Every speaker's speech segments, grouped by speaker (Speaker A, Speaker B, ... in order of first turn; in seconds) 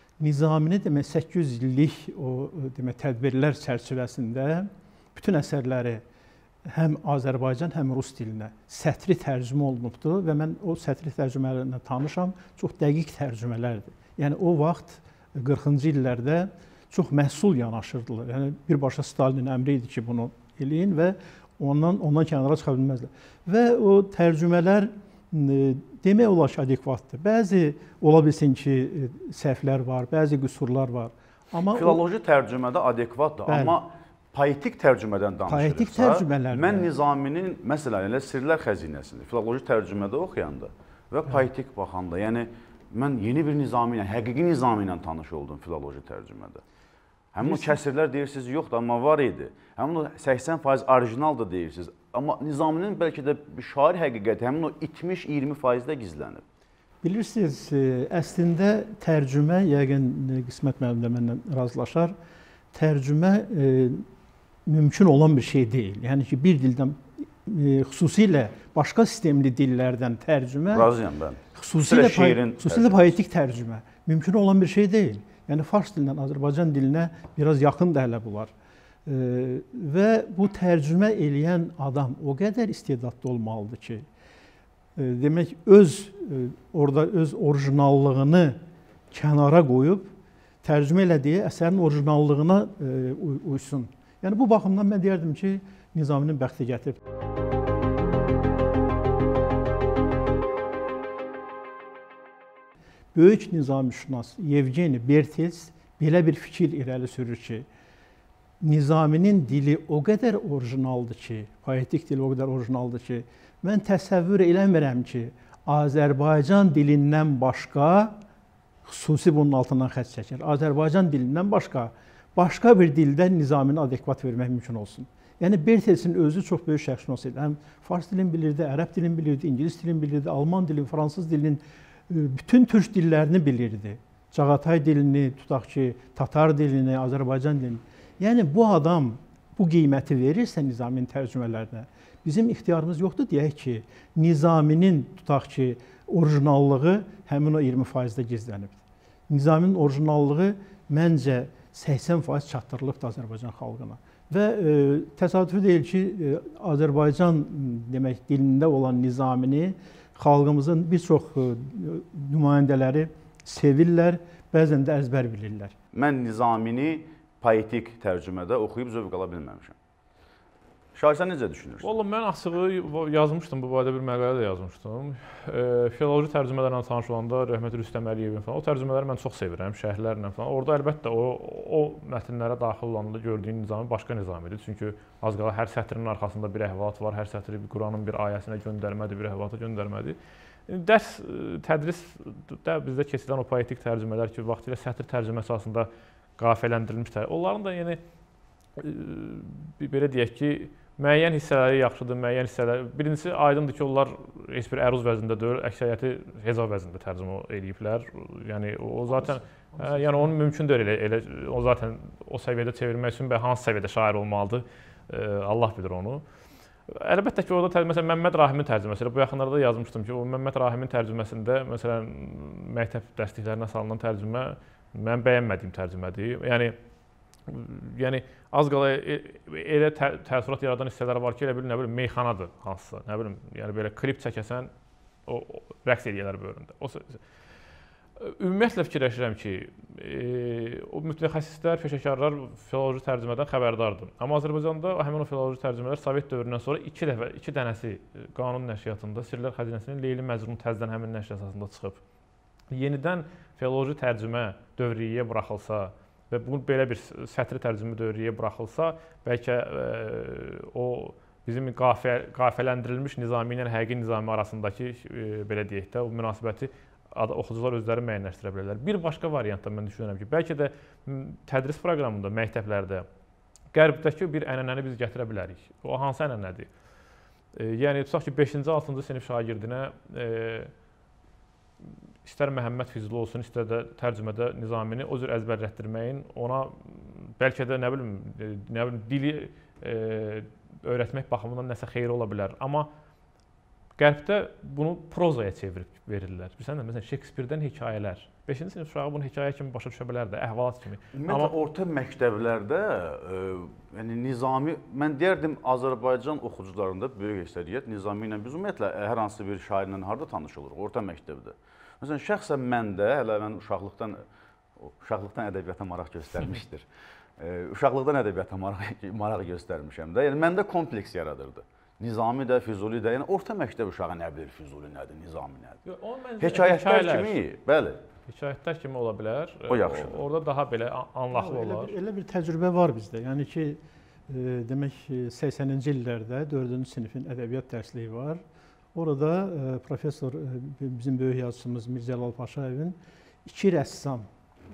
Speaker A: 0.2-6.0, 6.7-32.0, 33.5-33.8, 35.5-36.9, 47.4-47.8, 57.0-62.1, 62.7-64.0, 64.7-70.9, 71.5-78.5, 79.1-84.1, 85.0-88.6, 89.1-90.1, 90.6-97.0, 103.2-107.7, 108.6-118.2, 118.9-165.8, 331.3-338.4, 338.9-344.3
Speaker B: 31.7-46.6, 47.3-56.4, 70.7-73.2, 165.9-169.8, 170.9-171.9, 301.1-314.2, 314.8-316.9, 317.4-325.8, 326.4-328.0, 329.7-330.2
Speaker C: 171.8-190.2, 190.7-198.0, 198.8-216.2, 216.9-226.8, 227.5-234.7, 235.3-237.2, 238.2-252.0, 252.7-273.1, 273.7-276.7, 277.5-280.7, 282.2-292.9, 294.0-301.5, 325.9-327.4, 328.3-331.9